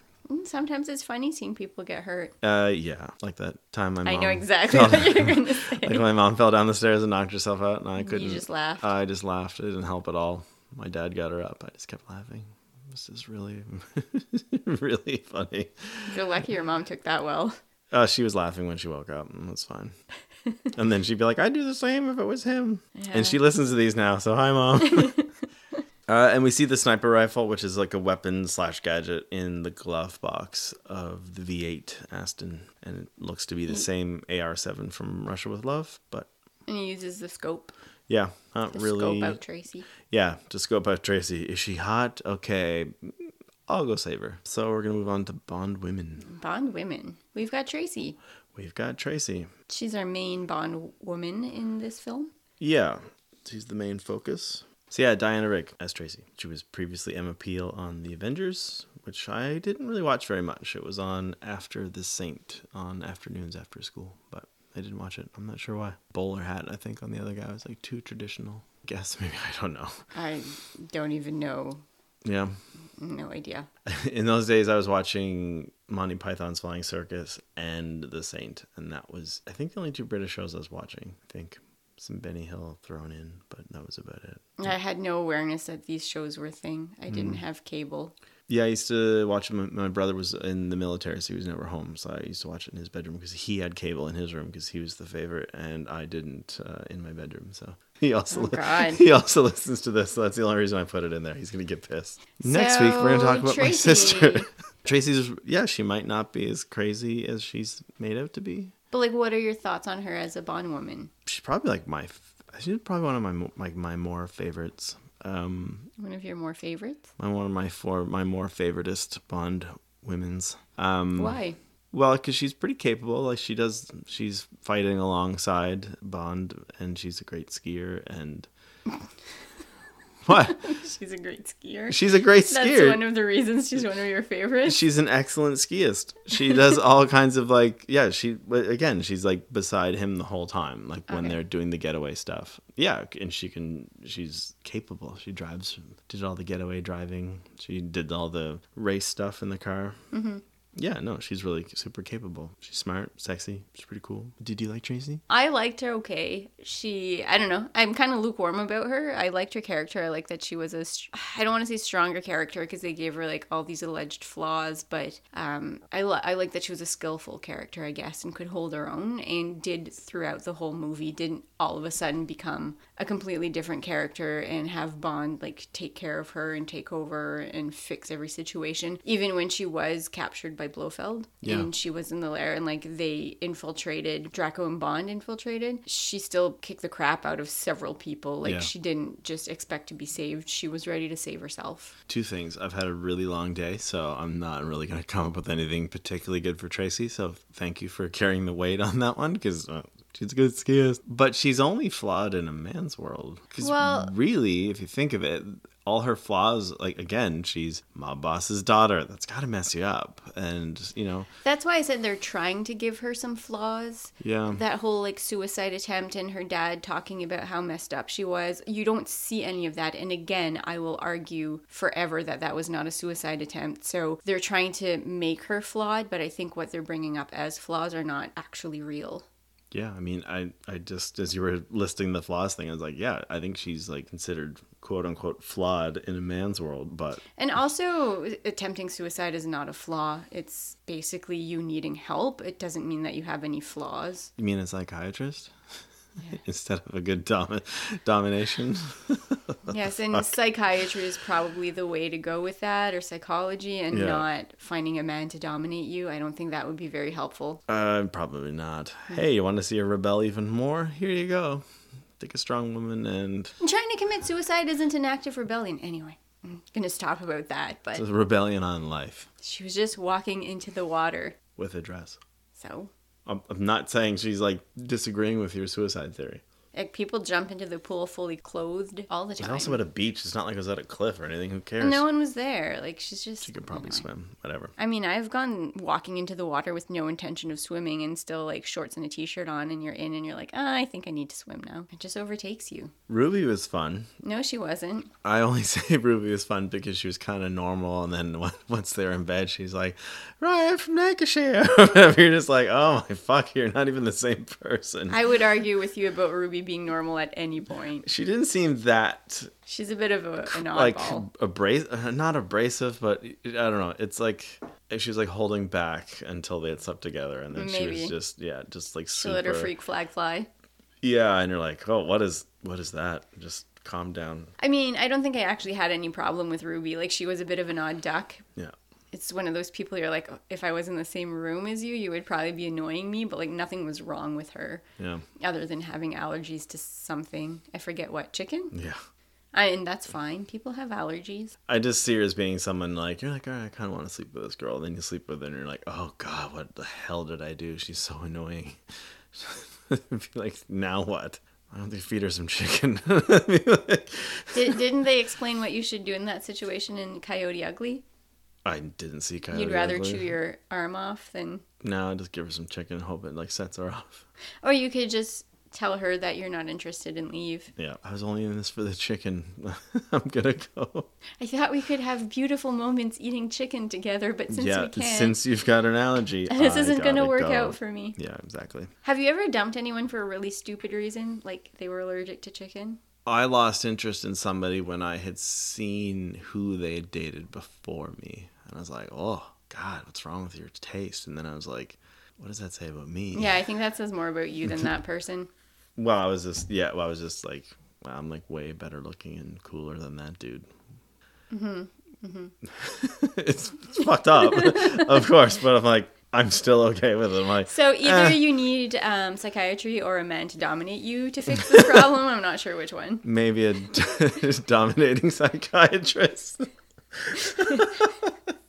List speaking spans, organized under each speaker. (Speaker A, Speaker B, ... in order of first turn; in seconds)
Speaker A: 0.3-2.4, 4.0-6.1, 8.0-8.9, 16.1-17.6, 22.9-23.4, 24.9-25.3, 36.7-37.7, 38.7-39.9, 46.2-48.2, 49.7-52.3, 70.1-71.8, 73.0-73.7, 84.6-88.1, 98.3-99.0, 102.4-104.5, 108.9-111.1, 116.0-117.1, 121.2-121.6, 130.3-134.8, 141.1-141.4, 150.1-150.4, 155.3-191.9, 203.6-204.1, 211.4-229.3, 237.4-244.3, 249.7-257.6, 263.6-268.0, 269.4-271.4, 272.6-272.9, 276.7-279.8, 281.8-284.1, 284.8-292.9, 294.2-295.1, 305.1-308.1, 309.7-311.3, 317.5-318.1, 319.2-320.5, 324.6-328.4, 329.1-334.8, 335.4-338.7, 339.5-341.6, 354.5-358.0, 359.5-361.6, 364.6-367.7, 371.4-375.4, 376.5-378.2, 379.0-383.0, 393.3-395.5, 401.5-402.5, 404.0-405.2, 407.7-413.2, 417.6-418.0
Speaker B: 2.4-16.1, 17.9-19.9, 20.7-25.1, 26.1-36.3, 38.1-39.4, 40.1-46.3, 48.5-49.5, 52.6-70.0, 72.2-72.6, 73.9-84.6, 87.1-87.4, 88.5-108.7, 111.3-115.9, 117.2-121.4, 121.9-128.5, 130.3-130.6, 131.9-133.1, 134.7-150.0, 150.8-155.2, 181.4-181.7, 188.4-188.7, 192.1-211.3, 214.2-214.6, 229.7-237.2, 244.4-245.5, 246.4-250.3, 253.9-254.2, 257.7-261.6, 262.2-263.5, 268.0-269.3, 271.6-272.2, 273.3-276.4, 279.4-282.1, 283.4-284.7, 293.1-294.1, 295.2-305.2, 308.0-309.5, 310.5-319.7, 321.0-324.5, 335.0-335.2, 338.7-339.0, 341.7-348.8, 349.3-354.8, 358.6-360.4, 361.8-364.3, 367.8-371.1, 374.5-378.9, 383.3-393.6, 396.0-400.7, 402.8-408.4, 413.2-418.3